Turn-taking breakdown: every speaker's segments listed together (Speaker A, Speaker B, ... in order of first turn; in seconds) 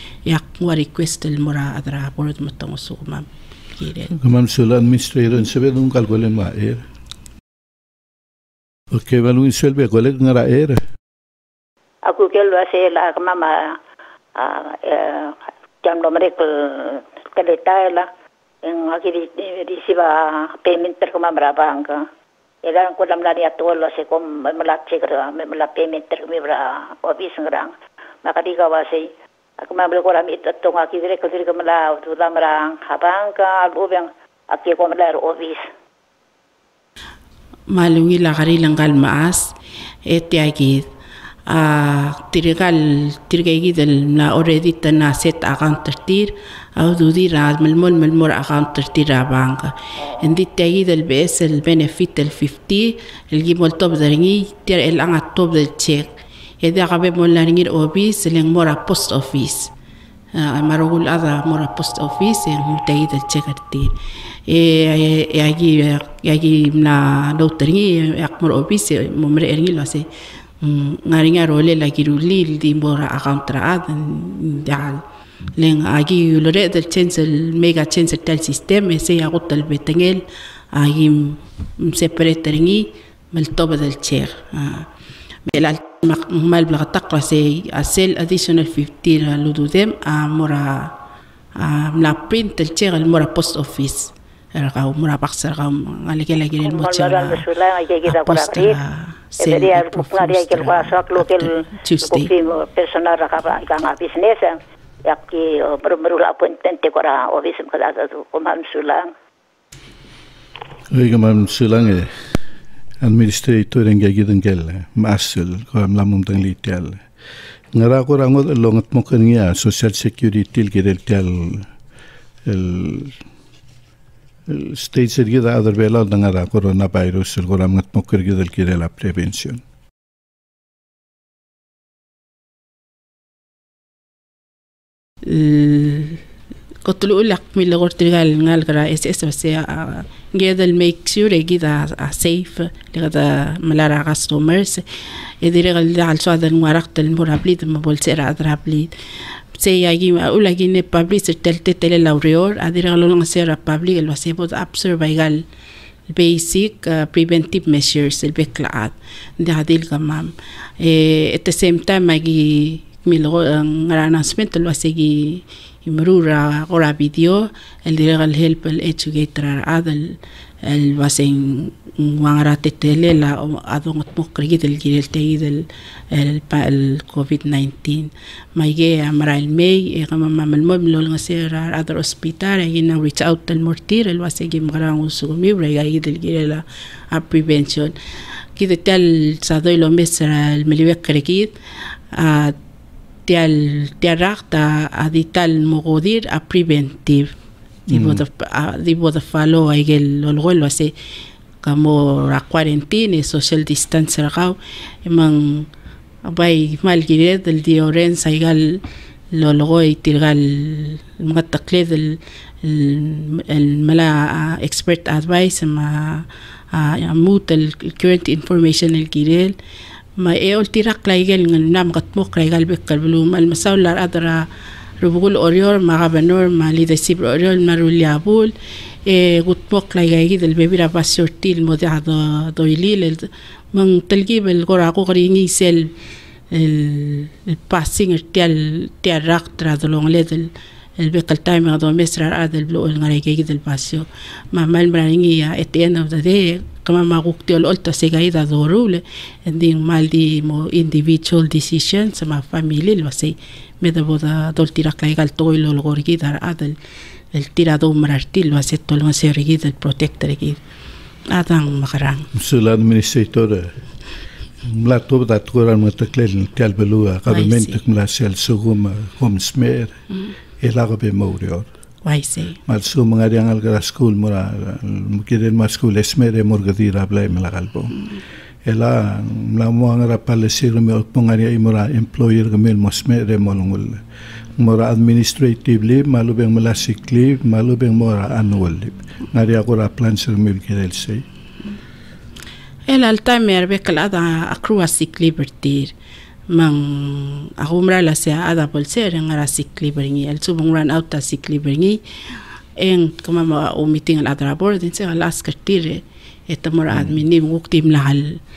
Speaker A: 0.2-4.1, 37.7-39.5, 40.0-40.9, 41.5-56.1, 56.6-59.7, 60.3-63.9, 64.5-70.0, 70.6-75.0, 75.6-84.9, 85.4-90.9, 91.6-97.5, 98.0-102.3, 135.2-136.2, 136.8-148.9, 149.5-155.4, 156.1-187.9, 188.6-191.5, 192.1-192.6, 193.3-197.3, 197.9-200.9, 201.6-205.7, 206.2-219.6, 220.2-224.5, 225.0-228.5, 229.1-235.9, 236.5-256.8, 257.3-260.6, 261.3-262.3, 267.3-267.8, 272.0-272.6, 292.9-295.9, 296.5-302.0, 302.8-308.4
Speaker B: 4.1-6.8, 8.9-10.8, 110.9-112.1, 113.0-117.0, 117.7-121.7, 122.4-123.2, 124.5-129.6, 197.9-198.2, 262.3-263.7, 264.6-269.9, 270.6-271.7, 272.7-278.0, 278.6-284.0, 284.6-291.2
Speaker C: 12.0-13.8, 14.3-18.1, 18.6-22.1, 22.6-35.7, 96.7-98.8, 99.4-109.1